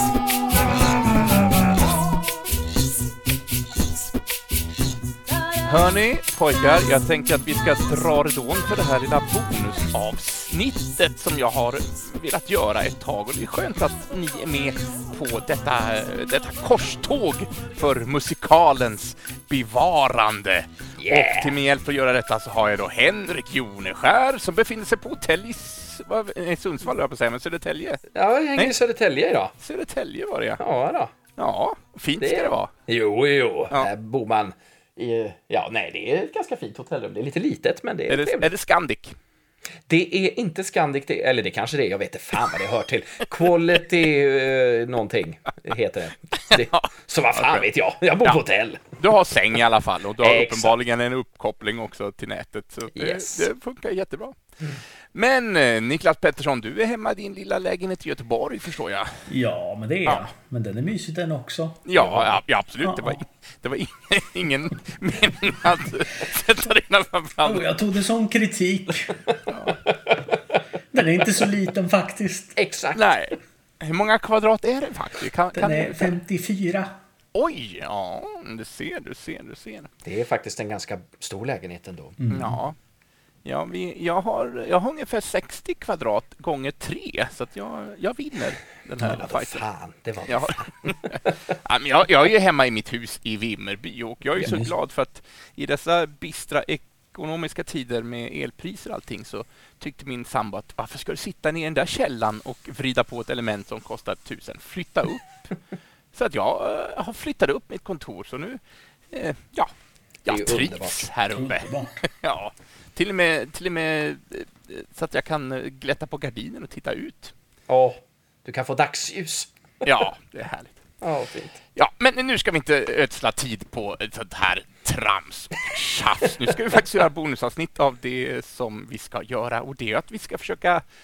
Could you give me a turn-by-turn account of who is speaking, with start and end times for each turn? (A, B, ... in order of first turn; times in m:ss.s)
0:05.6-0:28.0 A
0:21.0-0:21.6 B
0:28.1-0:29.6 B
0:29.6-0:30.6 A
0:30.6-0:31.1 B
0:31.4-0:32.7 A
0:32.2-0:38.5 B
0:38.1-0:39.2 A
0:39.9-0:49.0 B
0:46.4-0:47.7 A
0:49.0-0:59.3 A
0:50.2-0:50.8 B
0:53.0-0:53.5 B
0:59.3-1:01.9 C
1:01.9-1:07.6 A
1:02.0-1:02.4 B
1:02.8-1:03.2 C
1:07.4-1:09.2 C
1:09.5-1:09.8 A
1:10.9-1:12.6 C
1:12.6-1:13.0 B
1:13.0-1:16.1 A
1:15.5-1:16.9 C
1:17.4-1:19.9 A
1:20.0-1:22.2 B
1:22.2-1:22.6 C
1:22.3-1:22.8 A
1:23.4-1:29.6 A
1:29.0-1:31.4 B
1:30.3-1:45.6 A
1:34.4-1:34.7 C
1:46.1-1:49.7 A
1:50.2-1:57.3 A
1:50.3-1:51.0 B
1:51.4-1:52.0 C
1:57.7-1:59.8 B
1:59.8-2:00.8 A
2:01.0-2:01.6 B
2:01.8-2:10.8 A